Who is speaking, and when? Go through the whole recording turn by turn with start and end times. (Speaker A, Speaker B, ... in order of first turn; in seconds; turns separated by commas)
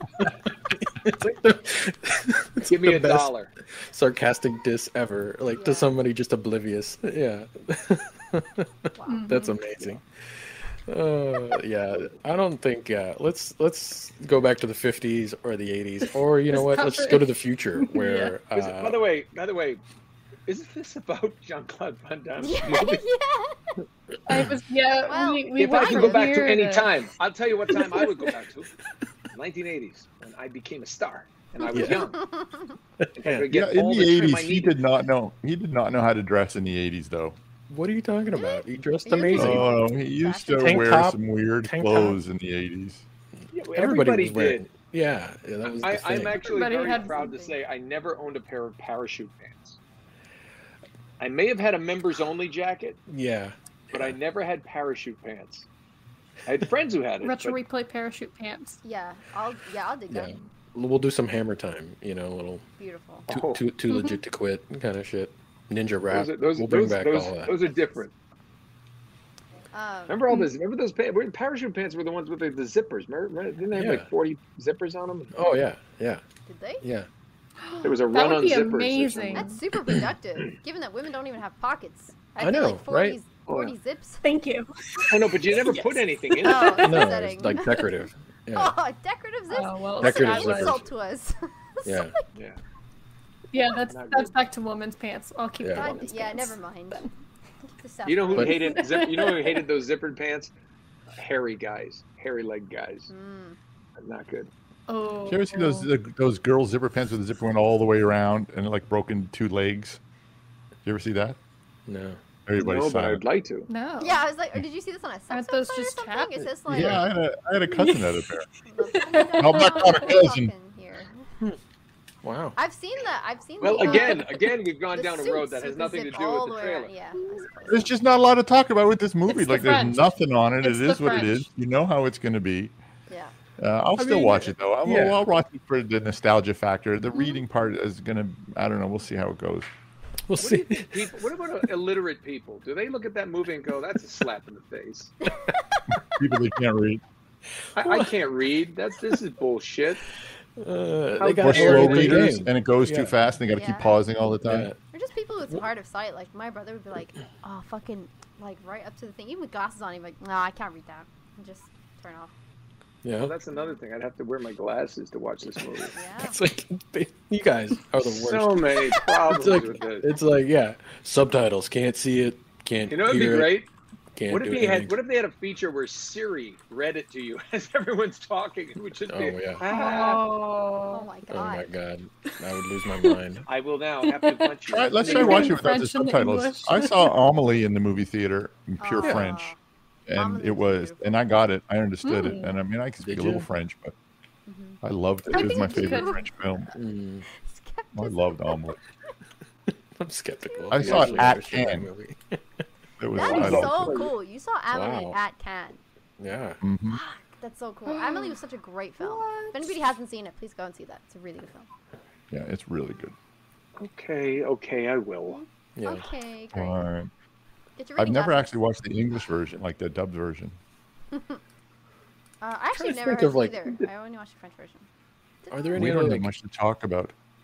Speaker A: 0.2-8.7, Speaker B: 2.6-3.5, Speaker C: 5.5-5.9, Speaker C: 8.9-9.3, Speaker D: 9.1-9.6, Speaker A: 9.3-19.0, Speaker D: 16.5-18.4, Speaker B: 18.5-19.8, Speaker B: 20.5-23.0, Speaker C: 22.4-23.7, Speaker D: 24.3-26.9, Speaker C: 25.1-26.3, Speaker B: 25.6-28.7, Speaker B: 29.3-32.2, Speaker C: 31.6-32.8, Speaker A: 31.7-32.1, Speaker A: 33.0-33.5, Speaker B: 33.2-34.8, Speaker E: 33.5-37.4, Speaker A: 37.7-39.7, Speaker C: 38.3-40.9, Speaker E: 39.3-43.0, Speaker A: 40.6-42.2, Speaker B: 43.5-44.6, Speaker A: 43.7-46.5, Speaker B: 45.8-49.8, Speaker D: 46.4-47.4, Speaker C: 46.7-47.5, Speaker B: 51.2-53.0, Speaker A: 53.1-54.1, Speaker B: 53.9-55.7, Speaker B: 56.5-57.6, Speaker D: 57.2-58.8, Speaker C: 58.8-60.4, Speaker A: 60.1-62.6, Speaker C: 62.8-63.3, Speaker A: 63.3-67.6, Speaker B: 63.3-63.6, Speaker D: 63.9-64.2, Speaker B: 66.1-68.1, Speaker C: 67.6-68.0, Speaker C: 69.7-70.2, Speaker B: 70.1-75.3, Speaker A: 73.7-74.1, Speaker A: 75.3-76.2, Speaker C: 76.5-76.8, Speaker A: 76.8-77.1, Speaker D: 77.6-79.6, Speaker B: 77.8-79.4, Speaker C: 79.3-84.2, Speaker A: 82.4-83.2, Speaker B: 83.5-83.7, Speaker D: 84.2-87.1, Speaker B: 85.1-86.8, Speaker C: 86.4-87.9, Speaker A: 86.8-88.7, Speaker C: 88.5-92.3, Speaker D: 89.5-90.8, Speaker A: 90.0-90.8, Speaker A: 91.8-92.1, Speaker D: 93.5-97.1, Speaker B: 93.9-94.3, Speaker A: 95.6-95.9, Speaker C: 95.7-97.1, Speaker C: 97.6-98.8, Speaker B: 98.1-100.5, Speaker D: 98.4-99.6, Speaker B: 101.2-103.1, Speaker C: 103.1-103.6, Speaker B: 104.0-104.5, Speaker D: 104.9-105.9, Speaker E: 105.2-110.0, Speaker E: 110.8-111.4, Speaker A: 111.9-112.2, Speaker E: 112.5-113.2, Speaker B: 112.6-113.7, Speaker D: 113.7-114.2, Speaker C: 114.0-117.0, Speaker D: 115.3-116.5, Speaker E: 116.7-118.5, Speaker D: 117.7-118.1, Speaker C: 118.6-121.3, Speaker D: 118.9-120.1, Speaker E: 119.4-120.5, Speaker A: 122.2-122.6, Speaker C: 122.6-127.9, Speaker B: 123.6-126.9, Speaker D: 123.8-124.3, Speaker D: 127.2-127.7, Speaker E: 127.7-132.7, Speaker D: 129.3-131.5, Speaker E: 133.6-139.7, Speaker A: 134.0-135.2, Speaker A: 140.3-141.3, Speaker B: 140.4-145.1, Speaker E: 145.9-147.0, Speaker A: 147.8-148.2, Speaker B: 147.8-150.1, Speaker A: 150.6-153.1, Speaker B: 151.2-152.3, Speaker E: 151.4-154.7, Speaker C: 153.5-154.0, Speaker A: 154.4-154.8, Speaker C: 154.9-162.3, Speaker A: 163.0-163.3, Speaker B: 163.2-166.0, Speaker C: 165.9-166.4, Speaker A: 166.2-173.6, Speaker B: 168.0-170.1, Speaker B: 172.9-173.7, Speaker A: 174.2-174.9, Speaker B: 174.3-180.2, Speaker A: 179.1-179.6, Speaker D: 179.7-181.1, Speaker C: 180.9-181.7, Speaker A: 181.3-183.5, Speaker B: 183.5-185.6, Speaker D: 184.0-187.1, Speaker E: 184.7-189.5, Speaker C: 188.8-189.6, Speaker E: 190.1-193.9, Speaker C: 190.1-191.3, Speaker D: 192.0-192.6, Speaker A: 193.0-193.5, Speaker C: 194.5-196.2, Speaker E: 194.8-196.7, Speaker D: 195.3-196.2, Speaker A: 196.7-197.2, Speaker C: 197.2-198.6, Speaker E: 197.9-198.8, Speaker A: 199.9-202.6, Speaker C: 200.4-201.1, Speaker E: 200.7-201.9, Speaker E: 203.0-204.0, Speaker C: 203.1-205.8, Speaker B: 203.2-204.1, Speaker A: 204.7-205.2, Speaker A: 206.2-206.6, Speaker E: 206.6-207.0, Speaker C: 206.9-211.7, Speaker D: 207.9-208.4, Speaker D: 209.0-209.8, Speaker E: 212.3-213.2, Speaker B: 213.8-215.4, Speaker C: 215.3-216.8, Speaker A: 215.8-216.1, Speaker E: 216.5-217.1, Speaker C: 217.8-218.5, Speaker E: 218.0-220.6, Speaker C: 221.1-221.4, Speaker C: 222.4-224.9, Speaker A: 222.7-223.8, Speaker C: 225.4-226.0, Speaker A: 225.5-226.3, Speaker E: 225.7-227.1